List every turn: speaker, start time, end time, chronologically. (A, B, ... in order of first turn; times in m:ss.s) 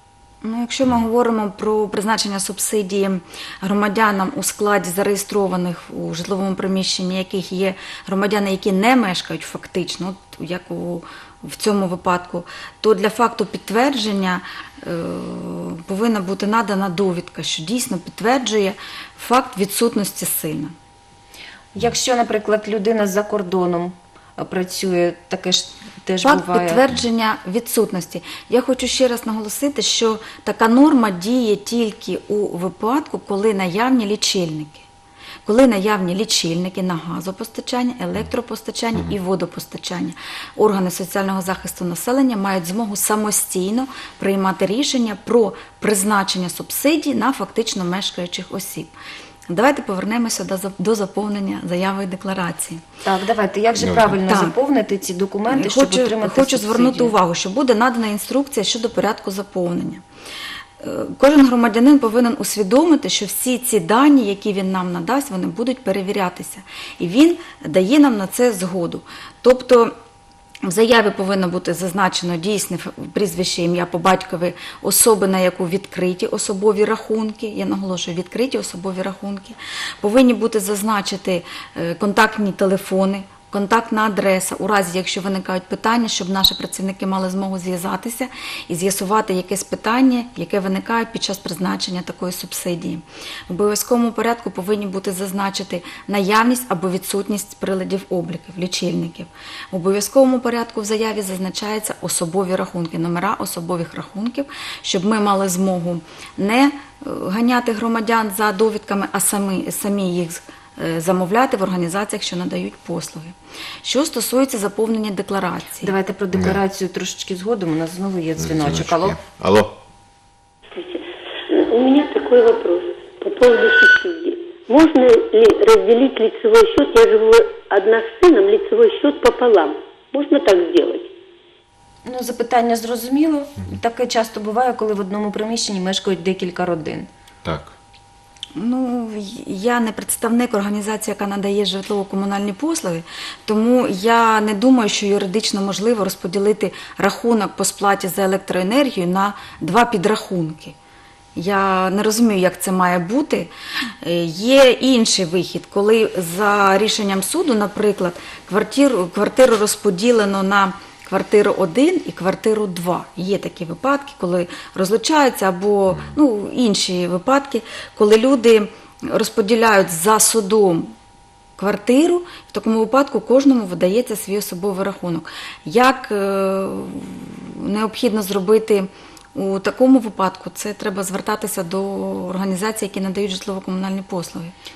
0:00.4-0:20.7 A
0:21.7-0:26.8 B
0:26.2-0:34.9 A
0:35.5-0:48.9 A
0:49.5-0:52.8 A
0:53.0-0:57.1 B
0:53.8-0:54.6 A
0:55.5-1:00.0 A
1:00.8-1:09.9 A
1:10.6-1:55.9 A
1:55.8-1:59.2 B
1:56.3-1:56.6 C
1:58.4-1:59.8 C
2:00.8-2:01.0 D
2:01.6-2:11.1 D
2:12.1-2:17.1 B
2:17.4-2:17.7 C
2:18.6-2:30.8 A
2:31.4-2:50.9 A
2:51.6-3:04.5 A